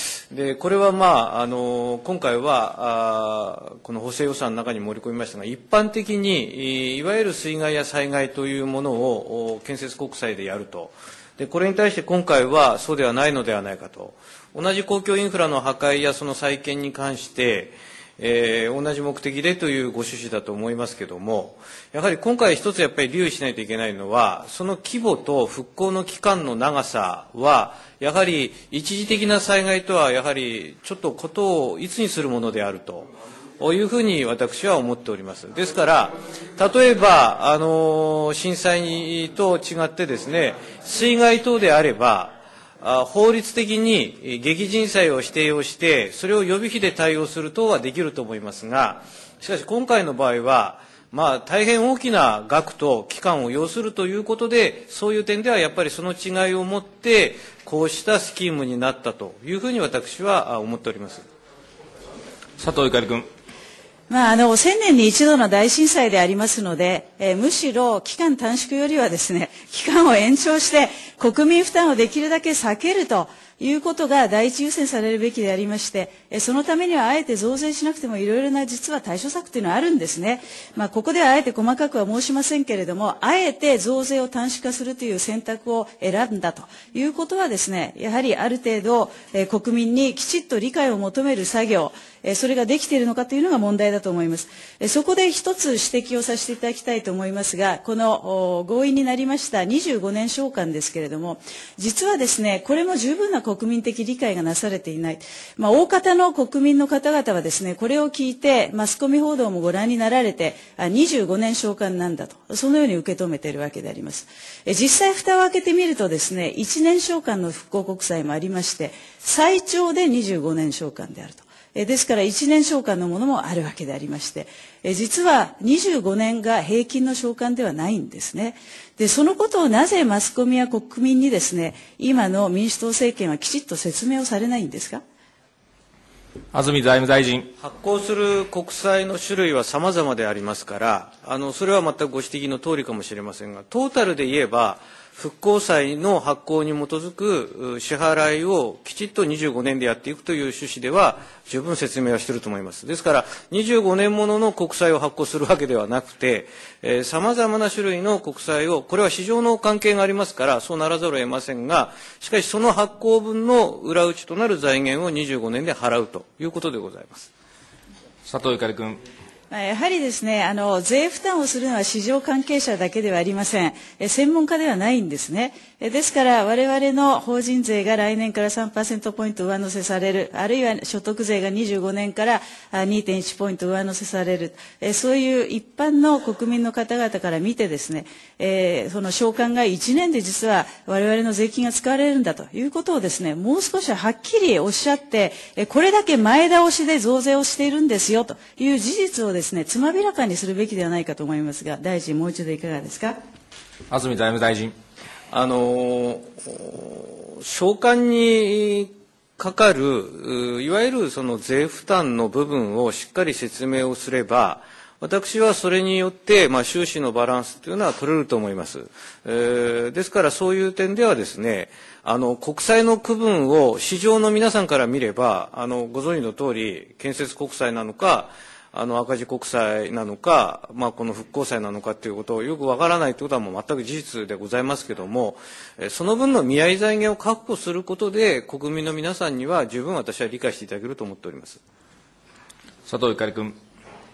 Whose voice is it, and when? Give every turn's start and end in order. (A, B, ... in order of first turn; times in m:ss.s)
0:00.3-1:01.2 A
1:02.6-1:03.3 B
1:04.1-2:15.0 C
2:16.5-2:17.5 B
2:17.6-2:47.3 A
2:48.2-2:49.0 B
2:49.5-3:23.2 C
3:23.9-3:24.7 B
3:25.3-4:01.6 A
4:02.8-4:03.6 B